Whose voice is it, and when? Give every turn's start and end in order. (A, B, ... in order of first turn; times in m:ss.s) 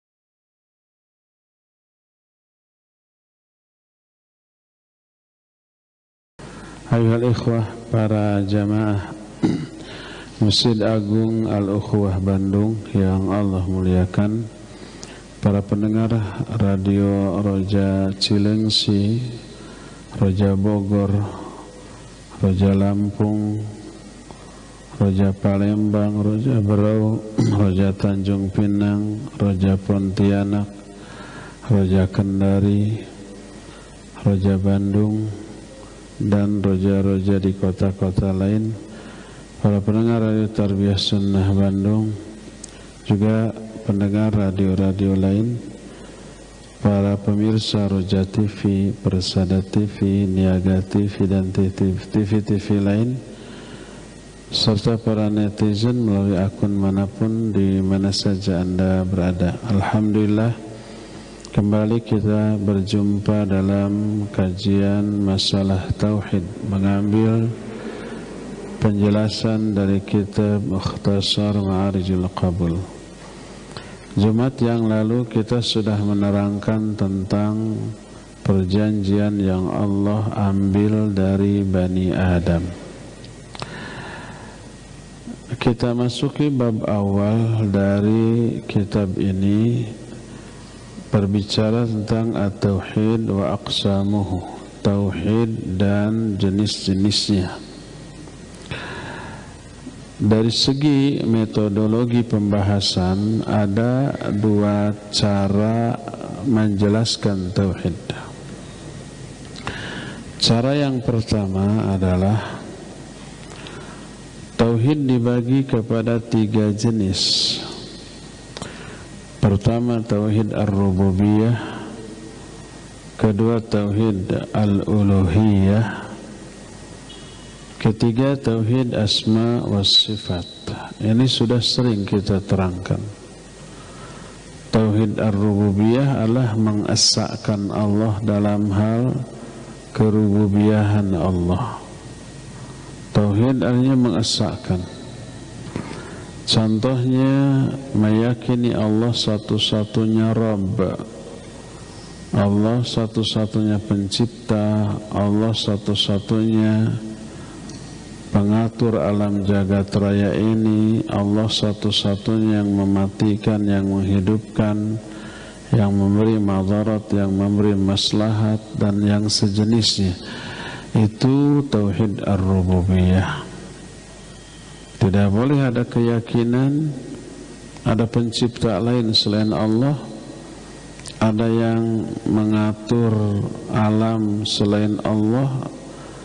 0:06.9-0:09.6 A
0:10.4-0:14.4 A
0:15.4-0:19.2 A
0:20.2-0:21.2 A
0:22.4-0:23.6 A
0:25.0-0:30.7 A
0:31.7-0:32.9 A
0:34.2-0:35.3 A
0:36.2-0:38.7 A
0:39.6-0:42.1 A
0:43.1-0:45.6 A
0:46.8-0:53.2 A
0:54.5-1:00.6 A
1:01.5-1:07.5 A
1:08.8-1:12.8 A
1:14.2-1:17.7 A
1:18.4-1:22.7 A
1:25.6-1:29.8 A
1:31.1-1:37.6 A
1:40.2-1:48.2 A
1:50.4-1:52.4 A
1:54.6-1:57.7 A
1:59.4-2:01.6 A
2:03.2-2:05.9 A
2:07.8-2:13.0 A
2:14.7-2:19.1 A
2:19.9-2:21.8 A
2:23.1-2:24.8 A
2:26.5-2:30.9 A
2:32.4-2:36.8 A
2:38.3-2:44.8 A
2:45.7-2:50.2 A
2:51.0-2:53.3 A
2:55.0-2:56.9 A
2:57.9-3:00.0 A
3:01.2-3:05.6 A